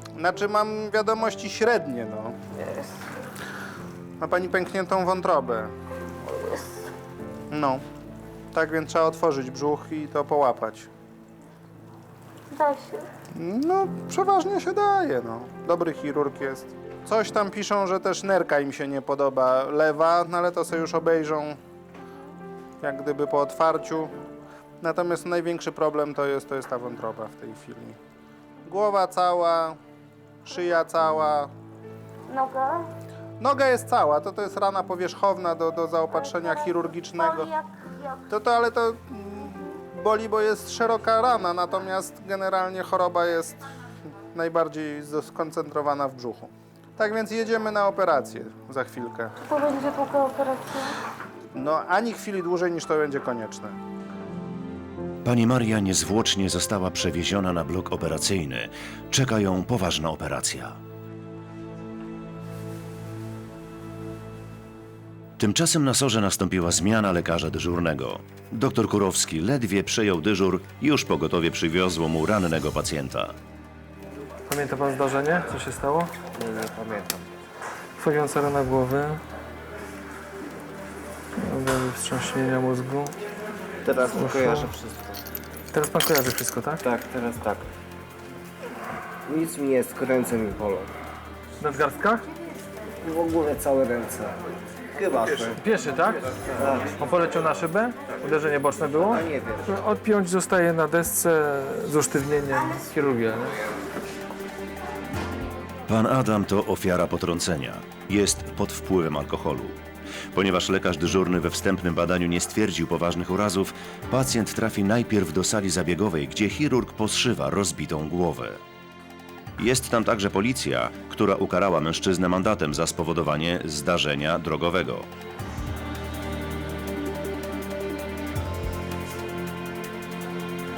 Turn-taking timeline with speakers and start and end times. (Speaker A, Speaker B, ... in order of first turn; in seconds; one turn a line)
Speaker A: 0.1-2.4
Speaker B: 2.6-2.9
Speaker A: 4.2-5.7
Speaker B: 6.2-6.8
Speaker A: 7.5-7.8
Speaker A: 8.5-10.9
Speaker B: 12.5-13.1
Speaker A: 13.3-21.6
Speaker A: 22.8-24.1
Speaker A: 24.8-28.0
Speaker A: 28.6-29.8
Speaker A: 30.4-31.5
Speaker B: 32.3-32.9
Speaker A: 33.4-37.5
Speaker B: 36.1-38.2
Speaker A: 38.3-43.7
Speaker A: 44.3-49.3
Speaker B: 49.4-51.0
Speaker A: 51.5-53.8
Speaker C: 55.2-60.8
Speaker C: 65.4-73.3
Speaker D: 74.5-76.1
Speaker E: 76.3-77.3
Speaker D: 78.0-79.2
Speaker D: 81.3-83.1
Speaker E: 83.8-85.2
Speaker D: 84.1-84.7
Speaker D: 85.7-86.8
Speaker E: 86.8-87.6
Speaker E: 89.3-90.9
Speaker D: 91.6-92.2
Speaker E: 93.0-94.3
Speaker E: 94.9-95.6
Speaker D: 95.6-96.2
Speaker E: 96.5-96.9
Speaker D: 96.8-103.5
Speaker E: 99.1-99.7
Speaker C: 105.9-109.8
Speaker C: 110.3-118.6
Speaker C: 119.6-125.1